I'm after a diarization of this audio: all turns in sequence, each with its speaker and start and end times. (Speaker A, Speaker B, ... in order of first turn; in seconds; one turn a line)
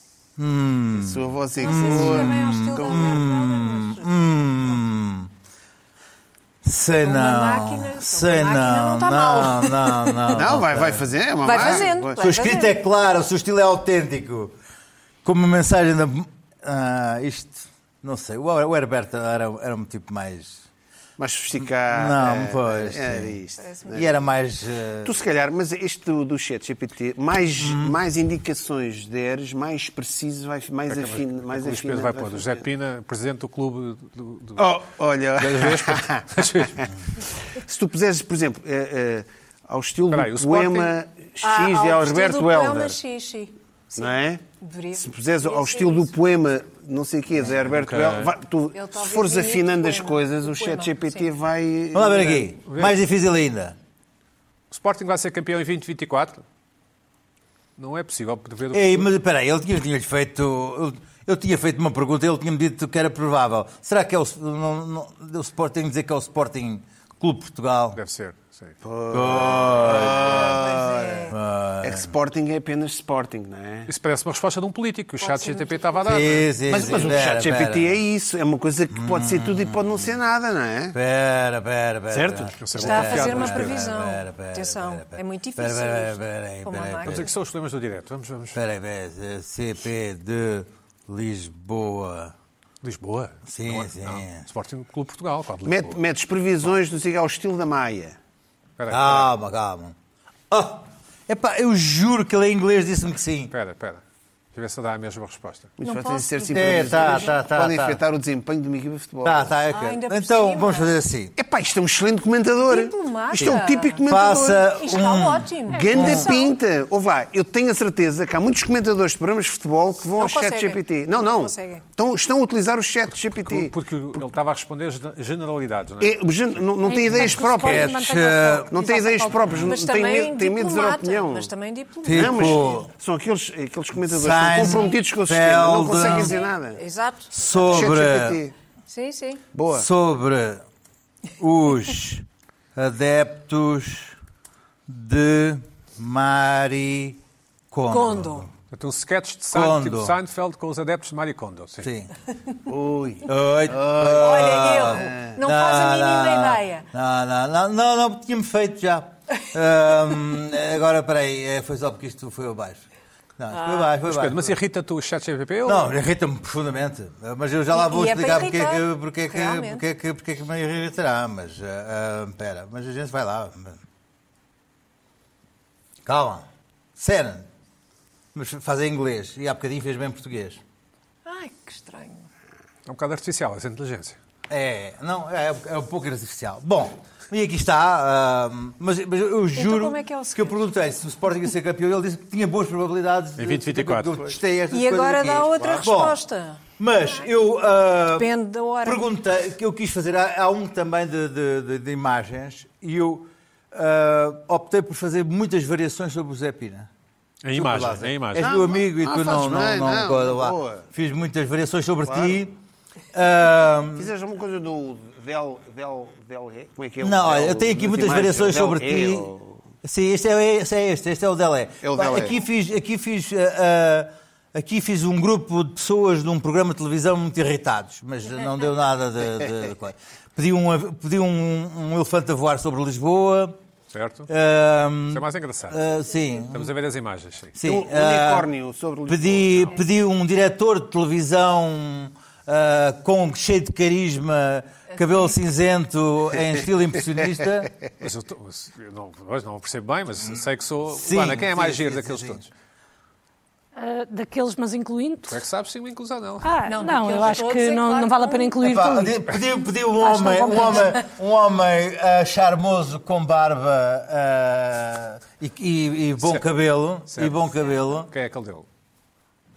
Speaker A: 0.4-5.3
Speaker B: 0.9-3.2
Speaker C: 1.6-4.1
Speaker A: 6.6-14.5
Speaker C: 7.0-10.3
Speaker B: 10.3-12.2
Speaker C: 11.4-12.8
Speaker A: 15.2-20.7
Speaker B: 21.2-24.1
Speaker A: 21.9-23.4
Speaker C: 23.6-24.0
Speaker A: 23.9-25.2
Speaker B: 25.0-32.6
Speaker A: 27.6-28.0
Speaker D: 30.9-34.8
Speaker B: 34.6-36.9
Speaker D: 35.4-36.9
Speaker B: 37.5-43.0
Speaker D: 40.1-40.9
Speaker C: 41.4-46.1
Speaker B: 44.0-44.4
Speaker B: 45.0-52.5
Speaker D: 47.5-48.3
Speaker C: 48.7-51.3
Speaker A: 51.9-53.8
Speaker D: 52.7-53.0
Speaker D: 54.7-56.4
Speaker D: 57.8-59.1
Speaker A: 58.7-68.0
Speaker D: 67.9-68.8
Speaker B: 68.8-73.9
Speaker A: 69.1-70.7
Speaker C: 70.2-71.4
Speaker A: 71.2-72.1
Speaker D: 73.9-76.8
Speaker C: 75.2-76.2
Speaker A: 76.1-78.0
Speaker B: 76.7-81.0
Speaker A: 78.9-80.1
Speaker A: 80.9-87.3
Speaker B: 82.1-82.7
Speaker D: 82.6-83.8
Speaker C: 82.8-87.3
Speaker D: 87.0-88.6
Speaker A: 88.5-92.3
Speaker D: 92.8-96.0
Speaker A: 93.5-94.4
Speaker B: 95.7-98.2
Speaker D: 98.8-99.3
Speaker A: 98.9-99.9
Speaker A: 100.5-103.5
Speaker D: 103.5-104.0
Speaker D: 104.5-105.7
Speaker B: 105.8-109.5
Speaker C: 105.8-107.3
Speaker A: 106.5-108.0
Speaker A: 109.2-111.3
Speaker C: 109.7-110.9
Speaker B: 111.4-114.7
Speaker C: 112.6-116.6
Speaker A: 113.3-116.3
Speaker B: 115.7-123.7
Speaker C: 120.2-121.8
Speaker D: 123.3-126.1
Speaker B: 126.0-127.9
Speaker E: 126.8-129.5
Speaker A: 127.1-128.7
Speaker B: 128.7-131.5
Speaker C: 129.6-132.6
Speaker A: 132.0-132.9
Speaker B: 132.1-136.8
Speaker A: 134.1-136.4
Speaker C: 136.0-137.6
Speaker A: 137.3-138.4
Speaker B: 137.6-138.5
Speaker C: 138.9-139.4
Speaker B: 139.5-139.9
Speaker A: 139.7-140.6
Speaker A: 141.4-142.2
Speaker A: 142.8-144.2
Speaker A: 144.9-147.2
Speaker A: 147.7-148.5
Speaker C: 147.9-148.5
Speaker D: 148.7-151.9
Speaker A: 149.5-150.2
Speaker A: 151.8-152.1
Speaker B: 152.7-154.4
Speaker A: 153.2-162.9
Speaker C: 154.1-156.9
Speaker B: 155.1-155.3
Speaker A: 163.4-164.5
Speaker D: 163.6-166.0
Speaker A: 165.7-173.8
Speaker C: 167.7-169.8
Speaker A: 176.1-177.5
Speaker A: 178.3-180.6
Speaker C: 181.2-182.3
Speaker D: 182.9-184.2
Speaker A: 184.5-196.2
Speaker C: 189.6-190.6
Speaker D: 193.4-194.2
Speaker C: 194.7-197.2
Speaker A: 196.8-198.3
Speaker C: 198.1-199.0
Speaker A: 198.8-206.9
Speaker D: 207.4-208.5
Speaker A: 207.5-212.6
Speaker B: 208.4-210.8
Speaker B: 212.1-212.4
Speaker A: 213.1-214.1
Speaker B: 214.0-219.6
Speaker A: 217.0-219.3
Speaker A: 219.8-233.6
Speaker B: 221.8-222.4
Speaker D: 233.9-234.3
Speaker A: 234.3-236.7
Speaker D: 235.1-235.8
Speaker D: 236.5-237.6
Speaker A: 237.6-238.5
Speaker B: 237.6-239.7
Speaker A: 239.1-247.7
Speaker D: 248.0-252.5
Speaker A: 250.9-252.5
Speaker E: 253.8-255.4
Speaker D: 255.3-256.5
Speaker E: 256.4-259.3
Speaker C: 256.6-258.6
Speaker A: 258.6-268.1
Speaker E: 260.0-260.9
Speaker D: 267.1-268.6